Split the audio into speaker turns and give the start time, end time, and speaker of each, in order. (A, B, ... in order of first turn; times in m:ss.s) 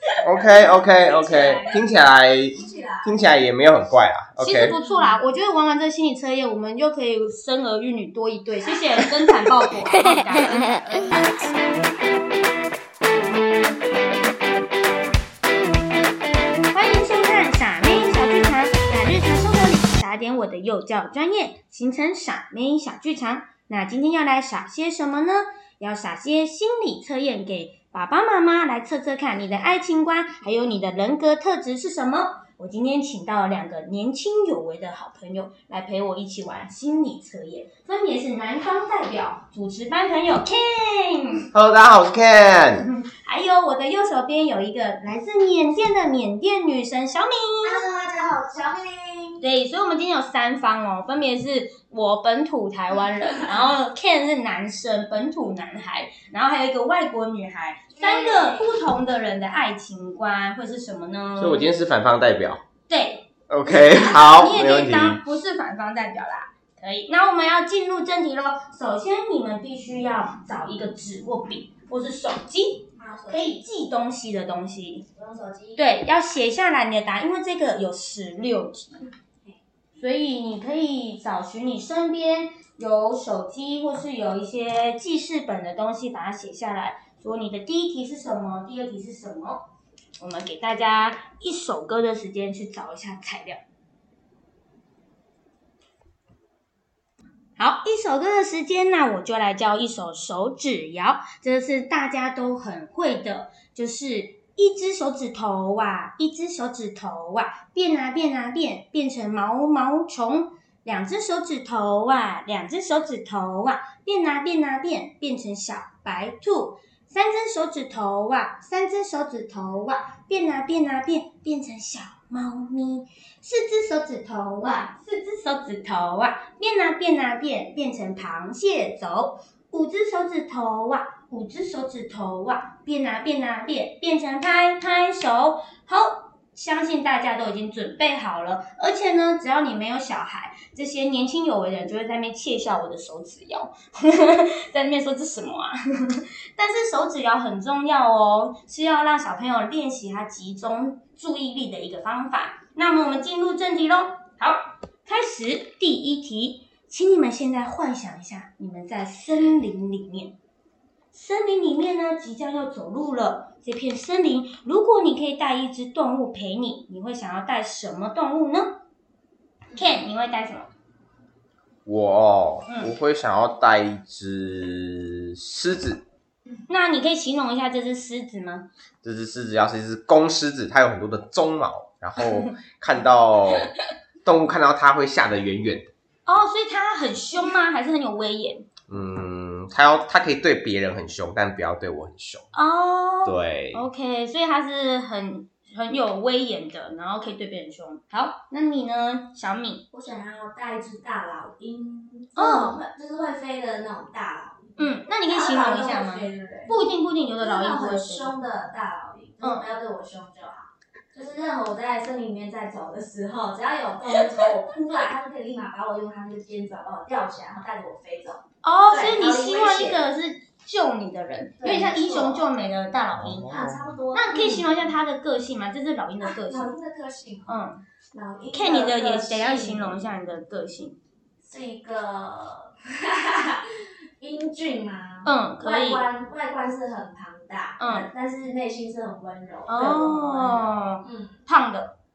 0:00.2-0:04.8 A
0:00.4-0:01.8 B
0:02.5-0:03.2 B
0:04.4-0:11.3 C
0:04.8-0:05.2 B
0:16.7-0:41.5 C
0:41.5-0:42.9 A
0:43.0-0:47.8 C
0:47.6-0:49.4 B
0:49.4-1:01.7 C
0:58.0-0:58.7 B
1:01.4-1:02.6 A
1:02.9-1:03.2 C
1:03.5-1:05.2 A
1:03.9-1:15.0 C
1:13.0-1:13.6 B
1:15.1-1:15.8 B
1:15.8-1:19.1 C
1:19.9-1:29.6 C
1:30.2-1:33.6 C
1:37.6-2:40.3 C
2:04.6-2:04.9 B
2:41.1-2:48.8 C
2:49.7-2:50.7 C
2:51.8-2:56.0 A
2:52.7-2:52.9 C
2:56.7-2:58.7 C
2:59.0-3:05.9 A
3:06.2-3:08.6 C
3:08.9-3:12.5 A
3:12.5-3:19.8 C
3:13.2-3:13.8 A
3:19.9-3:26.8 B
3:22.4-3:22.8 C
3:24.8-3:28.4 C
3:27.4-3:40.0 B
3:29.4-3:29.6 C
3:38.6-3:43.5 C
3:41.6-3:42.5 B
3:43.2-3:43.8 A
3:43.4-3:44.9 B
3:44.1-3:46.7 C
3:46.2-3:47.6 B
3:47.5-3:47.8 C
3:48.1-3:50.1 B
3:48.5-3:51.0 C
3:51.4-4:01.4 B
3:55.2-3:56.0 C
3:57.8-3:58.1 C
3:59.7-4:01.9 C